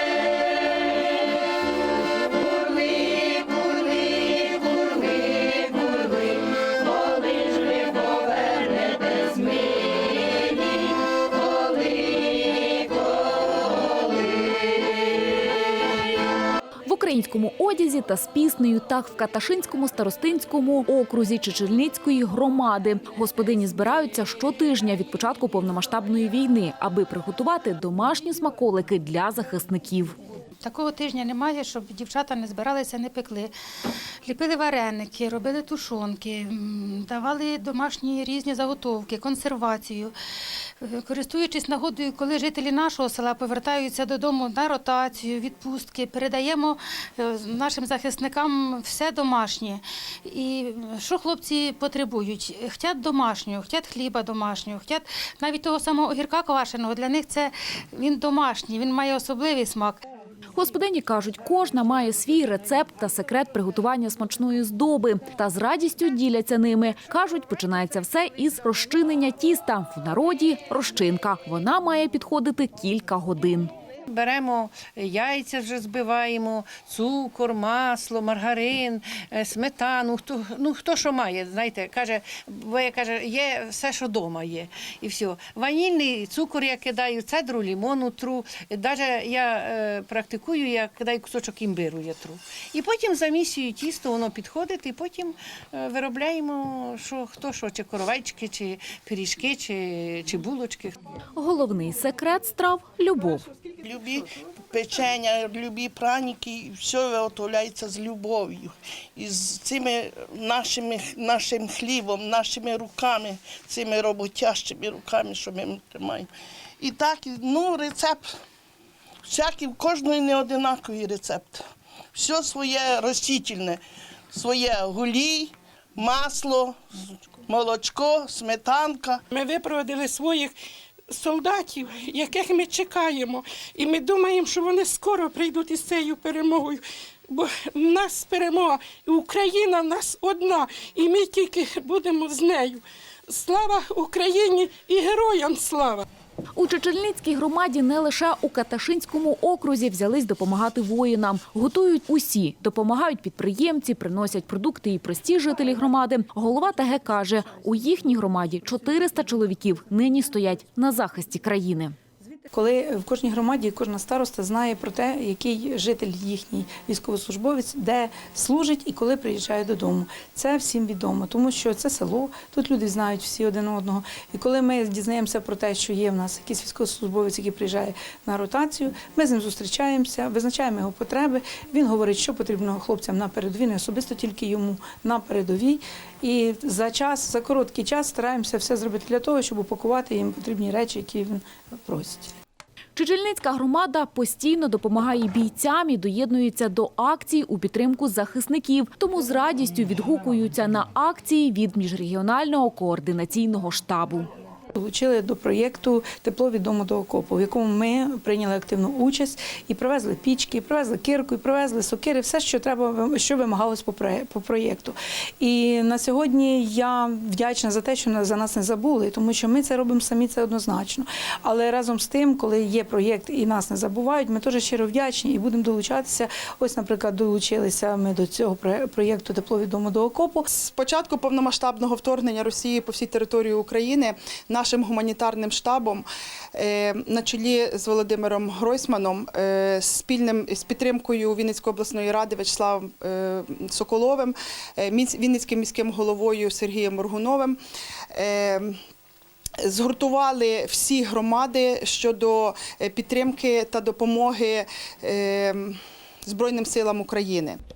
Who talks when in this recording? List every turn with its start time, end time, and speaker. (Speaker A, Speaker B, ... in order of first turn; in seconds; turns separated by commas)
Speaker A: 16.9-30.1, Speaker B: 30.6-33.5, Speaker B: 34.2-40.1, Speaker B: 40.8-60.0, Speaker A: 60.5-73.7, Speaker C: 74.1-100.9, Speaker A: 101.4-103.4, Speaker D: 103.8-116.3, Speaker D: 116.8-118.2, Speaker D: 119.2-121.6, Speaker D: 122.1-123.8, Speaker D: 124.3-126.8, Speaker D: 127.5-129.2, Speaker E: 129.3-130.5, Speaker E: 131.1-146.0, Speaker A: 146.6-161.9, Speaker F: 162.5-192.3, Speaker A: 192.9-204.3, Speaker F: 204.8-230.5, Speaker G: 230.5-247.6, Speaker G: 248.1-248.7, Speaker G: 249.6-257.6